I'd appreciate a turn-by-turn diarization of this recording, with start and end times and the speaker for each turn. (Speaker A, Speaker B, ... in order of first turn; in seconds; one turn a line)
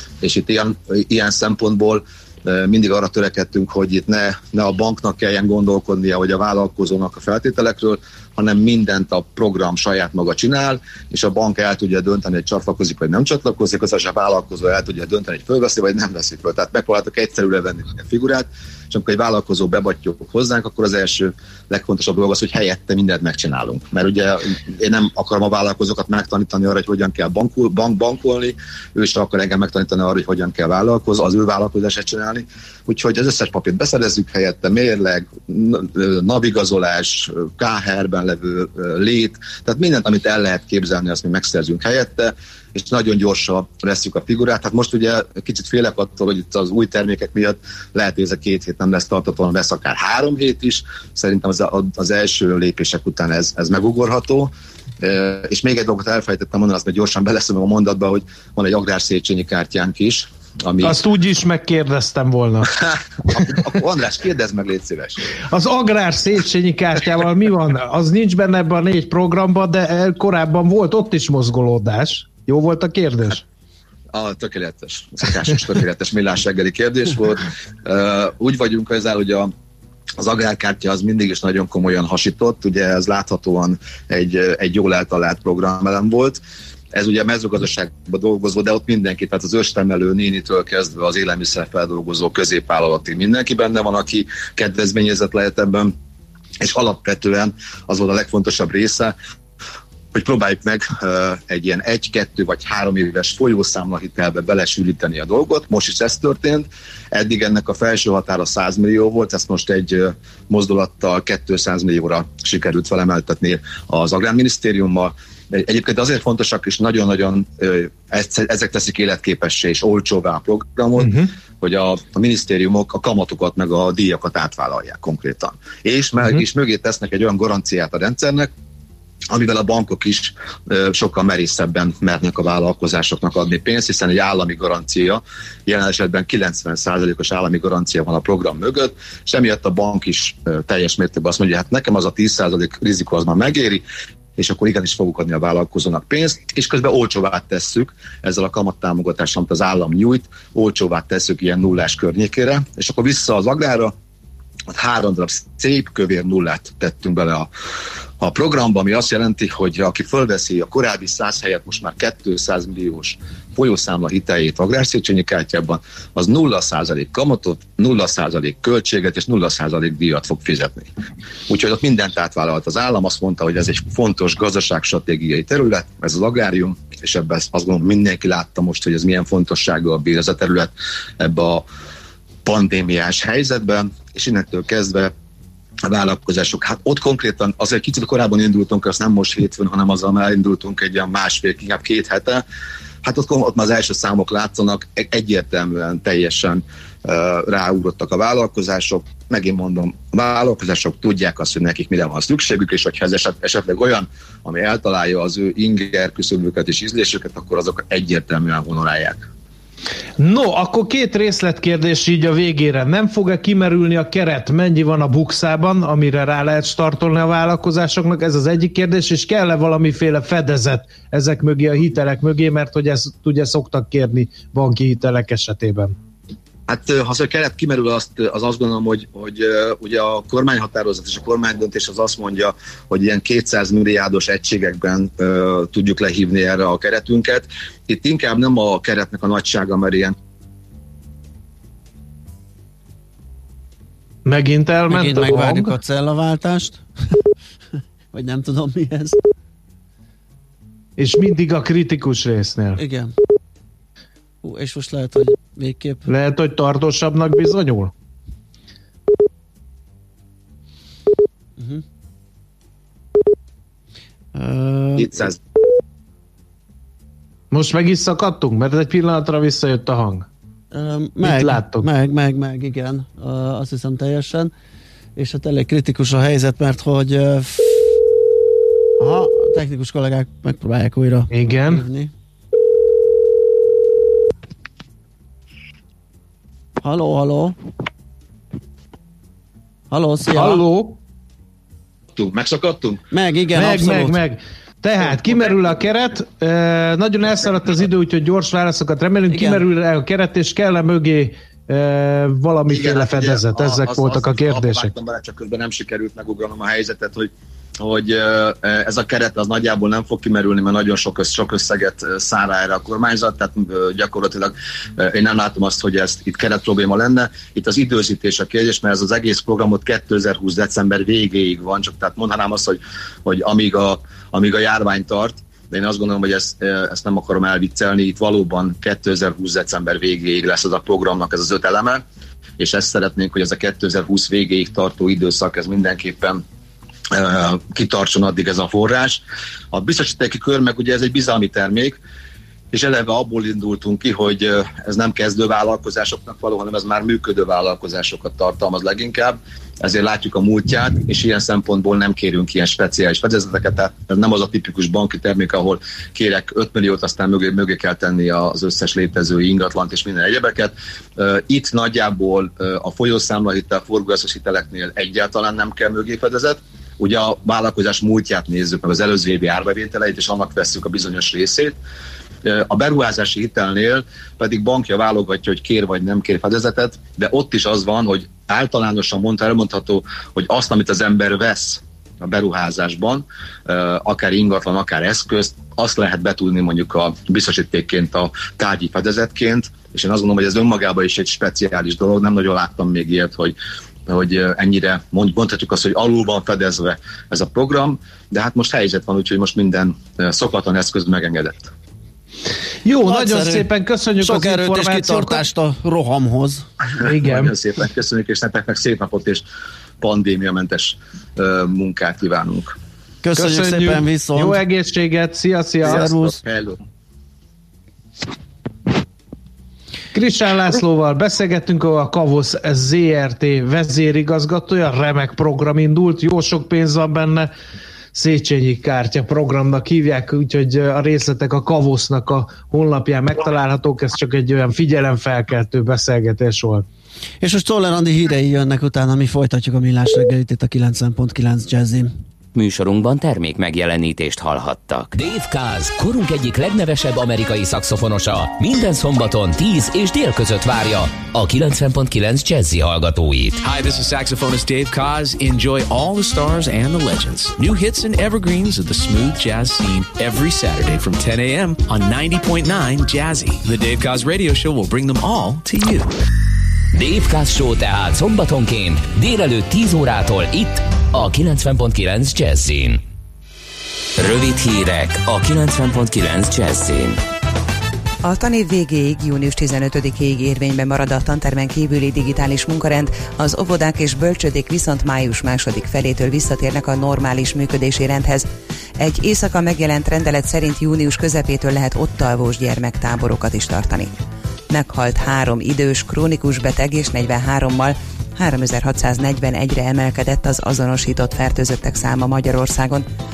Speaker A: 0.2-61.0
Speaker B: 60.8-62.7
Speaker A: 63.3-65.2
Speaker B: 65.5-73.4
Speaker A: 74.1-79.5
Speaker A: 80.2-86.4
Speaker A: 86.9-95.9
Speaker A: 96.6-99.1
Speaker A: 100.1-128.5
Speaker B: 121.0-121.3
Speaker A: 129.3-143.8
Speaker A: 144.4-153.9
Speaker A: 154.7-157.5
Speaker A: 158.2-170.9
Speaker A: 171.5-181.7
Speaker A: 182.4-185.1
Speaker A: 185.9-192.4
Speaker A: 193.0-209.3
Speaker B: 210.2-225.9
Speaker A: 226.7-240.1
Speaker B: 244.2-245.8
Speaker C: 244.9-247.2
Speaker C: 248.1-249.2
Speaker B: 251.0-252.8
Speaker C: 252.8-253.1
Speaker C: 254.4-256.1
Speaker B: 256.1-257.9
Speaker C: 261.6-261.8
Speaker C: 264.3-265.3
Speaker A: 265.0-265.4
Speaker B: 267.5-270.2
Speaker C: 270.7-274.5
Speaker B: 271.2-271.9
Speaker C: 275.1-277.8
Speaker C: 279.0-282.1
Speaker B: 281.3-281.8
Speaker C: 286.8-287.5
Speaker C: 289.9-290.6
Speaker B: 290.3-291.0
Speaker A: 292.1-293.0
Speaker C: 293.1-294.2
Speaker B: 293.5-304.9
Speaker C: 299.3-299.6
Speaker A: 302.7-332.0
Speaker A: 332.6-336.4
Speaker A: 337.1-342.0
Speaker A: 342.7-371.8
Speaker A: 372.4-393.5
Speaker A: 394.1-401.7
Speaker B: 402.8-405.4
Speaker C: 403.0-403.7
Speaker C: 404.2-406.7
Speaker B: 407.0-407.5
Speaker A: 407.2-409.4
Speaker A: 410.0-412.8
Speaker C: 413.2-414.6
Speaker B: 413.4-416.0
Speaker C: 415.8-416.4
Speaker A: 415.8-416.8
Speaker B: 420.1-427.5
Speaker B: 428.1-436.9
Speaker C: 437.4-442.1
Speaker D: 442.5-453.6
Speaker E: 453.6-466.1
Speaker D: 466.9-473.0
Speaker D: 474.2-477.2
Speaker F: 478.2-488.4
Speaker F: 489.0-494.1
Speaker F: 494.7-503.1